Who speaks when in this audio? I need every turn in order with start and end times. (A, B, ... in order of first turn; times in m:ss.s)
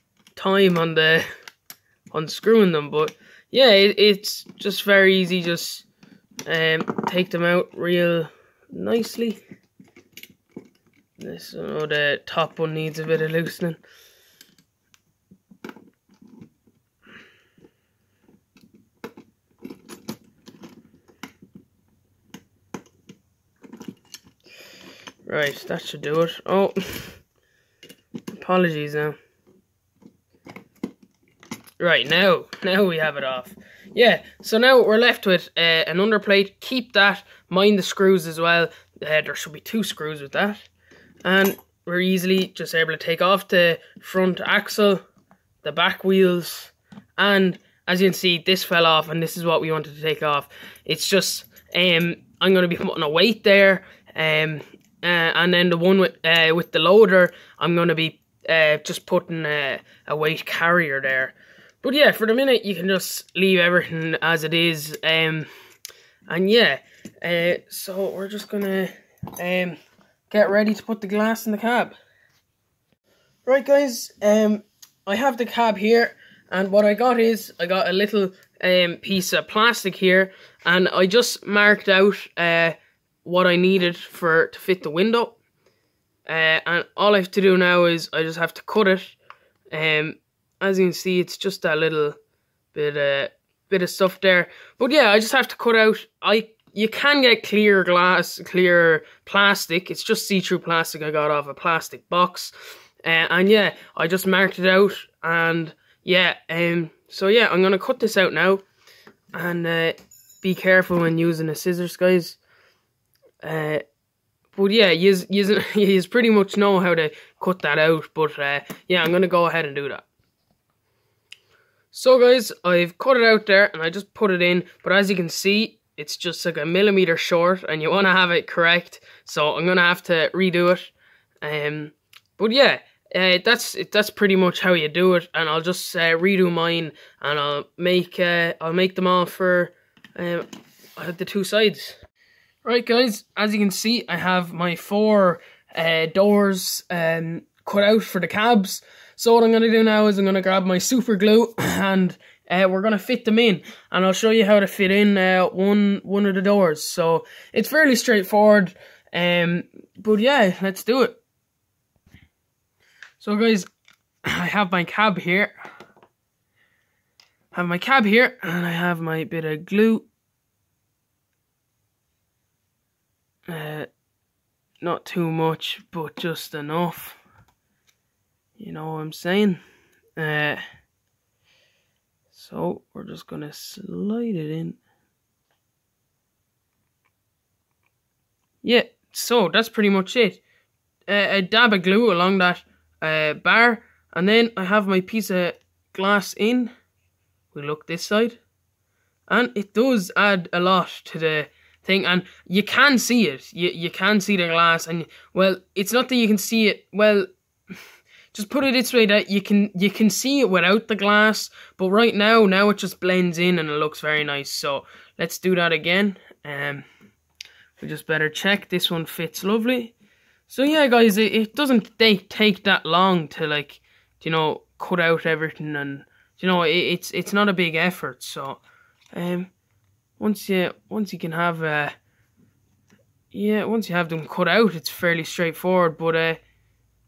0:00.4-0:01.3 A
0:02.1-0:05.9 A
0:06.5-0:09.4 A
0:11.2-0:13.8 A
0:25.2-0:27.2 A
0:28.3-0:29.2 A
0:31.8-0:40.7 A
0:41.2-0:45.0 A
0:45.6-1:05.5 A
1:06.3-1:09.8 A
1:10.3-1:12.0 A
1:13.5-1:25.4 A
1:26.3-1:29.2 A
1:29.7-1:32.2 A
1:32.7-1:42.5 A
1:43.0-1:48.6 A
1:49.3-1:52.4 A
1:53.4-1:53.8 A
1:54.6-2:00.1 A
2:01.9-2:22.0 A
2:22.6-2:41.2 A
2:43.2-2:43.7 A
2:44.2-2:45.6 A
2:47.5-2:50.1 A
2:53.5-2:53.9 A
2:54.8-2:57.2 A
2:58.6-2:59.6 A
3:00.2-3:00.6 A
3:02.3-3:04.8 A
3:08.6-3:10.4 A
3:11.1-3:16.7 A
3:17.5-3:18.4 A
3:19.3-3:27.3 A
3:28.3-3:36.8 A
3:37.8-3:39.9 A
3:40.5-3:48.6 A
3:49.1-3:49.5 A
3:50.2-3:51.9 A
3:53.3-3:56.4 A